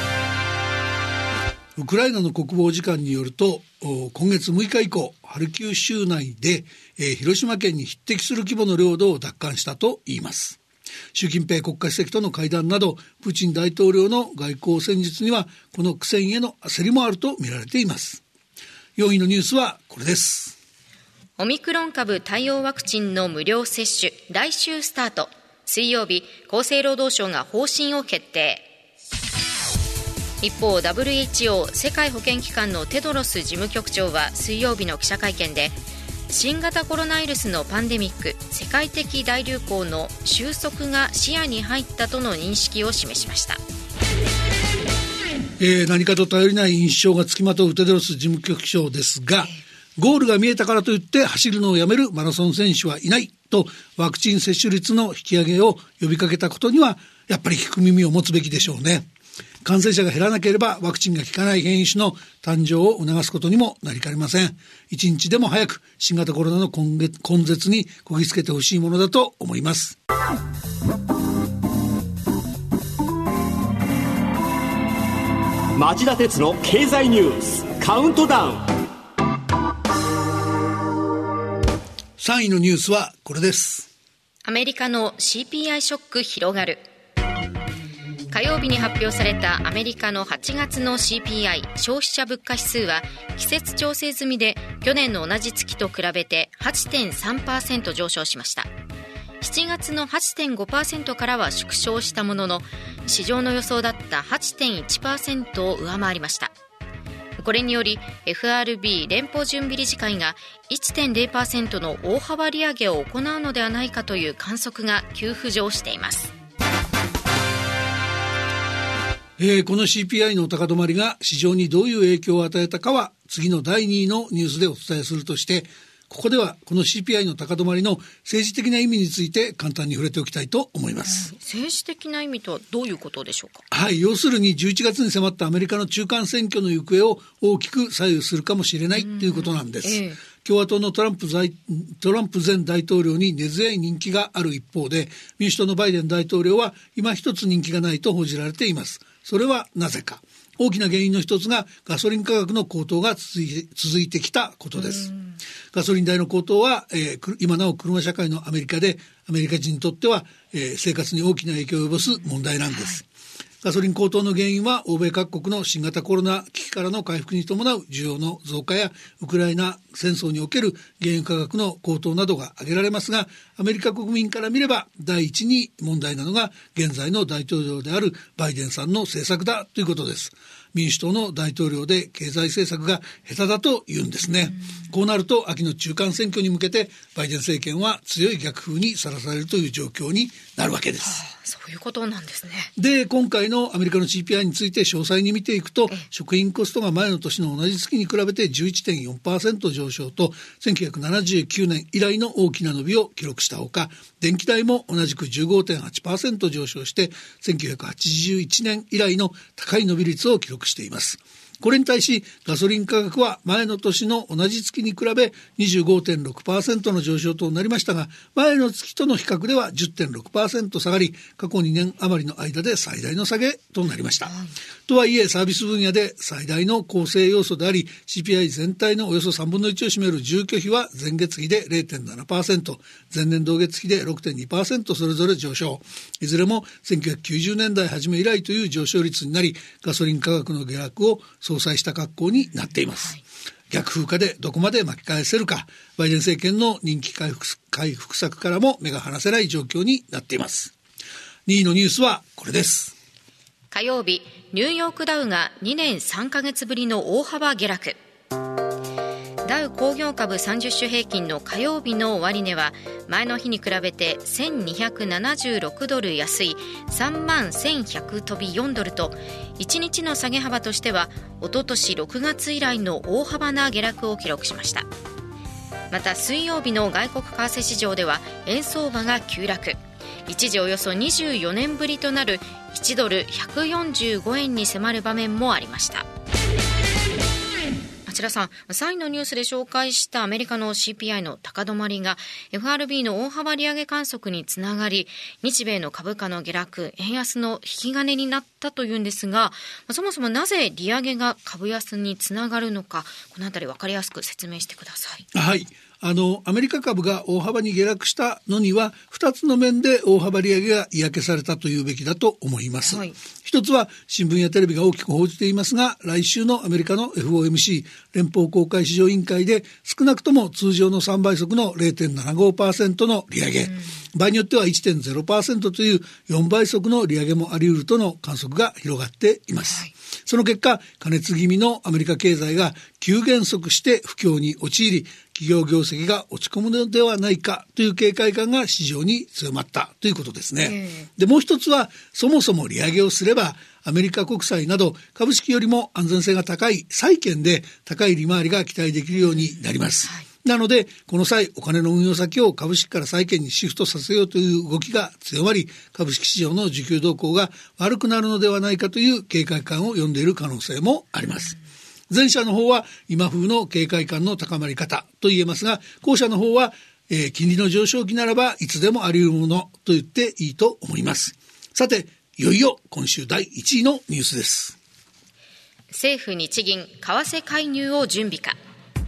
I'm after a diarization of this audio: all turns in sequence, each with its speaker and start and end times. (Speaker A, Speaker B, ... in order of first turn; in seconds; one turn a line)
Speaker A: 1.8-10.6
Speaker A: 11.1-18.2
Speaker A: 19.0-20.6
Speaker B: 21.4-28.7
Speaker B: 30.4-35.8
Speaker B: 36.3-43.6
Speaker A: 45.6-59.1
Speaker A: 59.6-70.0
Speaker C: 75.8-78.7
Speaker A: 82.2-83.9
Speaker B: 84.5-86.9
Speaker B: 88.3-98.7
Speaker B: 99.4-106.5
Speaker B: 107.4-116.3
Speaker A: 119.4-131.3
Speaker B: 131.1-133.6
Speaker A: 133.7-155.1
Speaker B: 139.0-140.2
Speaker B: 154.8-155.4
Speaker A: 155.7-163.1
Speaker A: 163.6-191.2
Speaker B: 191.0-192.7
Speaker A: 192.8-224.3
Speaker A: 224.9-243.2
Speaker A: 243.7-250.7
Speaker A: 251.5-253.0
Speaker B: 253.7-258.0
Speaker B: 259.4-274.9
Speaker B: 275.9-286.1
Speaker B: 288.1-305.3
Speaker A: 305.3-361.6
Speaker B: 312.9-313.2
Speaker B: 340.6-341.1
Speaker A: 362.1-374.8
Speaker B: 375.9-378.6